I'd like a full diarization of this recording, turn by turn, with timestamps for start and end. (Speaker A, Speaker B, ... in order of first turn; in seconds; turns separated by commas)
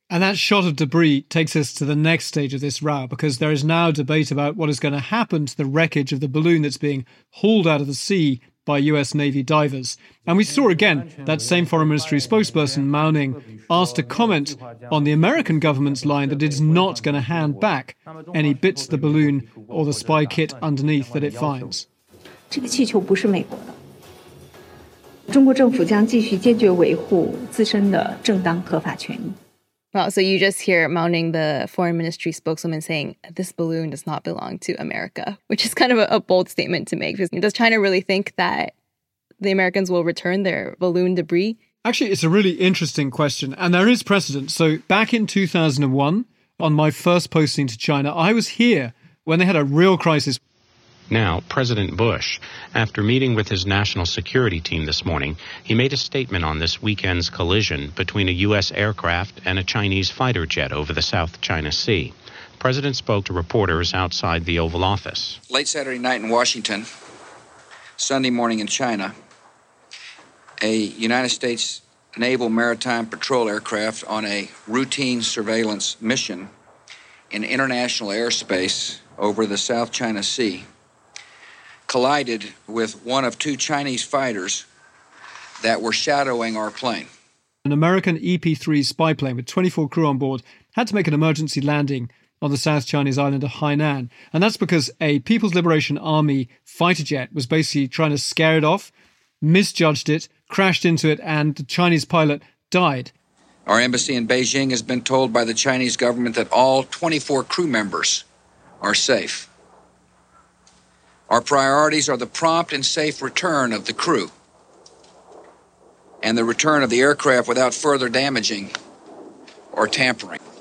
Speaker A: 0.1-21.9, Speaker B: 22.5-23.8, Speaker B: 25.3-29.4, Speaker C: 29.9-38.7, Speaker C: 39.4-41.6, Speaker A: 41.9-50.4, Speaker D: 51.1-65.4, Speaker E: 65.5-66.9, Speaker E: 68.0-69.1, Speaker E: 70.6-76.5, Speaker E: 77.3-80.7, Speaker E: 81.9-84.7, Speaker E: 85.6-87.1, Speaker A: 87.7-98.9, Speaker A: 99.4-103.1, Speaker E: 103.7-108.2, Speaker E: 108.8-109.5, Speaker E: 111.3-114.3, Speaker E: 116.2-118.7, Speaker E: 119.7-120.4